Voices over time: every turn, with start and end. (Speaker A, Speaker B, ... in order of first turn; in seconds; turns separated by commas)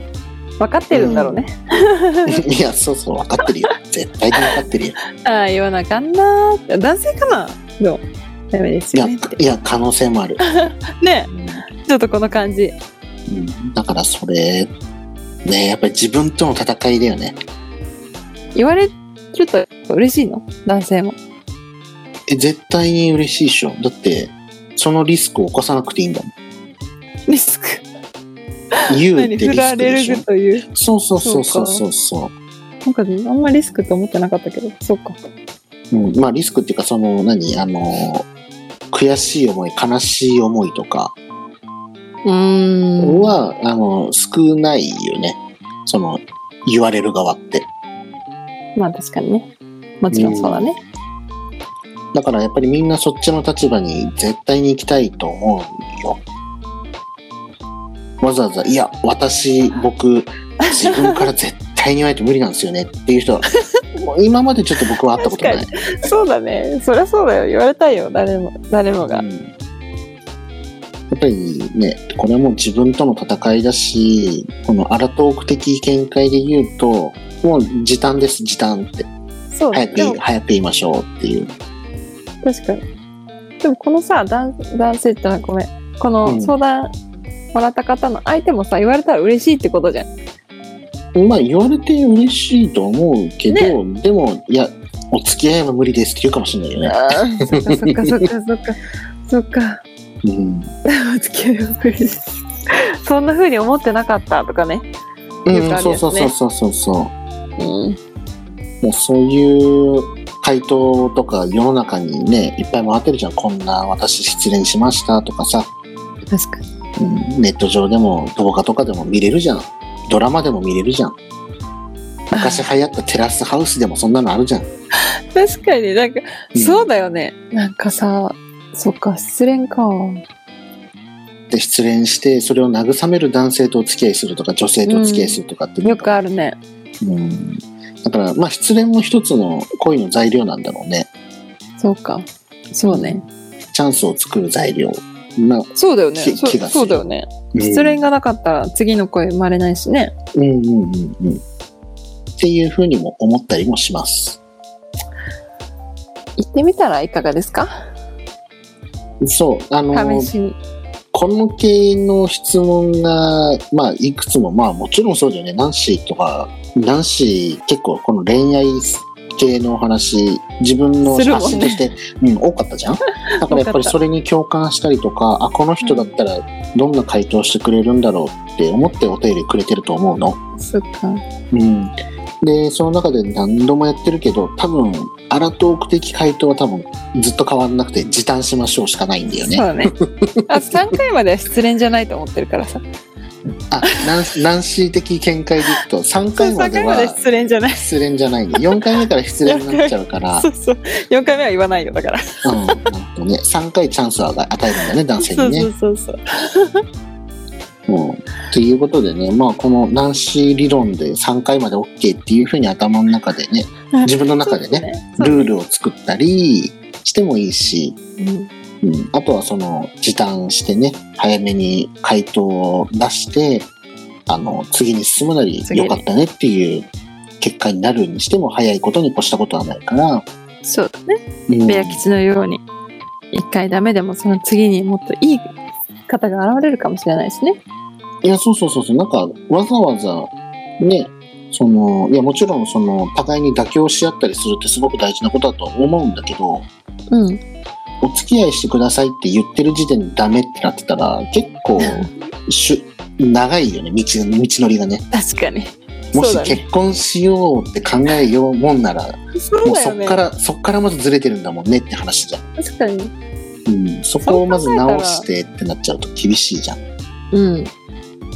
Speaker A: 0.6-2.4, Speaker B: 0.9-1.4, Speaker B: 2.3-5.0, Speaker A: 5.2-9.4, Speaker B: 8.9-10.4, Speaker A: 10.5-12.8, Speaker B: 11.3-11.6, Speaker B: 13.3-14.7, Speaker B: 15.4-17.4, Speaker A: 18.6-21.2, Speaker B: 22.3-26.3, Speaker A: 27.3-27.8, Speaker A: 28.8-30.7, Speaker B: 28.9-32.3, Speaker A: 31.2-31.8, Speaker A: 32.9-35.2, Speaker B: 35.9-38.3, Speaker B: 38.9-41.1, Speaker A: 42.2-43.4, Speaker B: 43.0-47.7, Speaker A: 48.8-49.5, Speaker A: 50.0-50.8, Speaker B: 50.1-50.7, Speaker B: 52.1-56.2, Speaker B: 58.2-65.7, Speaker A: 60.6-61.3, Speaker A: 65.2-69.2, Speaker B: 69.0-69.5, Speaker B: 71.1-79.1, Speaker A: 79.5-80.2, Speaker B: 79.7-81.5, Speaker A: 82.4-82.8, Speaker A: 83.6-86.9, Speaker B: 86.2-86.5, Speaker A: 87.5-90.1, Speaker B: 91.1-98.3, Speaker A: 93.5-93.8, Speaker A: 96.8-99.8, Speaker B: 100.2-100.7, Speaker A: 100.9-104.9, Speaker B: 105.5-107.1, Speaker A: 105.5-106.3, Speaker A: 107.6-108.0, Speaker B: 108.8-115.7, Speaker A: 116.3-116.7, Speaker B: 117.0-121.2, Speaker A: 122.3-122.7, Speaker B: 122.3-124.7, Speaker A: 125.3-130.2, Speaker B: 126.5-126.9, Speaker B: 131.5-136.2, Speaker A: 134.9-136.6, Speaker B: 137.0-141.1, Speaker A: 141.8-143.2, Speaker B: 142.9-147.0, Speaker A: 145.8-150.1, Speaker B: 147.5-148.1, Speaker B: 150.3-151.4, Speaker B: 152.4-154.4, Speaker A: 156.4-157.7, Speaker B: 159.2-160.3, Speaker A: 159.9-160.6, Speaker B: 161.1-180.4, Speaker A: 171.1-171.8, Speaker A: 173.3-173.9, Speaker A: 175.8-176.1, Speaker A: 180.6-181.2, Speaker B: 181.5-190.8, Speaker A: 189.4-189.9, Speaker A: 190.5-192.8, Speaker B: 193.7-197.2, Speaker A: 196.4-197.9, Speaker B: 197.8-200.5, Speaker A: 199.5-202.8, Speaker B: 202.4-205.7, Speaker A: 205.2-206.8, Speaker B: 207.9-218.0, Speaker A: 214.0-215.5, Speaker A: 218.2-218.5, Speaker B: 218.8-223.7, Speaker B: 224.3-226.9, Speaker A: 225.7-226.0, Speaker B: 227.4-230.3, Speaker A: 230.6-232.6, Speaker B: 231.5-232.0, Speaker A: 233.3-235.5, Speaker A: 236.1-237.6, Speaker B: 238.2-246.7, Speaker A: 247.1-247.4, Speaker B: 248.0-255.0, Speaker A: 251.8-252.1, Speaker A: 255.1-256.6, Speaker B: 256.1-262.4, Speaker A: 259.4-260.2, Speaker A: 262.6-263.1, Speaker B: 263.7-266.8, Speaker A: 264.2-265.2, Speaker A: 267.3-267.7